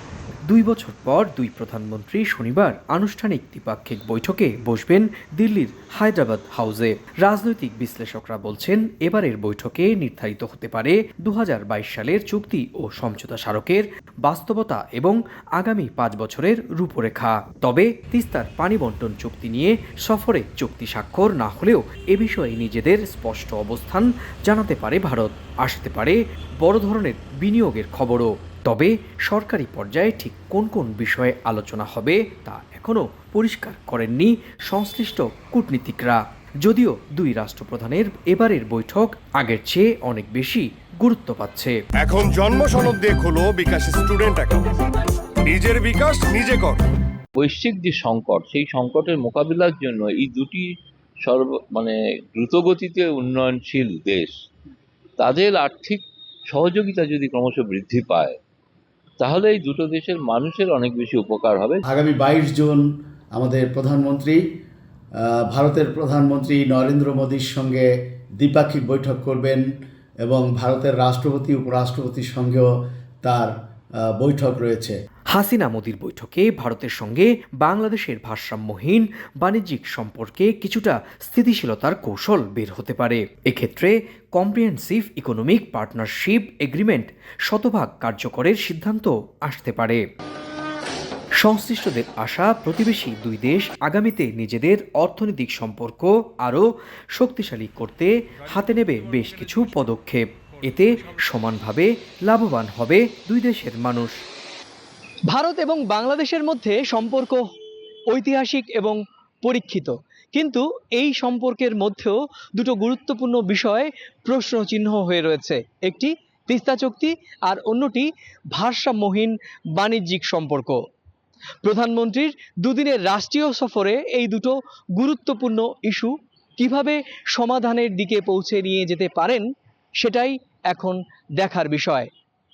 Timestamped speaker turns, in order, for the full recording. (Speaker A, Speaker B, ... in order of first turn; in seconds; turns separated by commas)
Speaker A: 0.5-41.8, Speaker B: 42.0-46.8, Speaker C: 47.4-50.7, Speaker C: 51.2-54.3, Speaker C: 55.2-58.4, Speaker C: 59.2-61.8, Speaker D: 61.9-62.8, Speaker D: 63.3-64.4, Speaker D: 65.2-67.8, Speaker D: 68.4-69.6, Speaker D: 70.2-72.7, Speaker D: 73.2-75.0, Speaker A: 75.3-90.0, Speaker A: 91.4-104.2, Speaker E: 105.3-107.4, Speaker E: 108.1-120.8, Speaker E: 121.6-132.1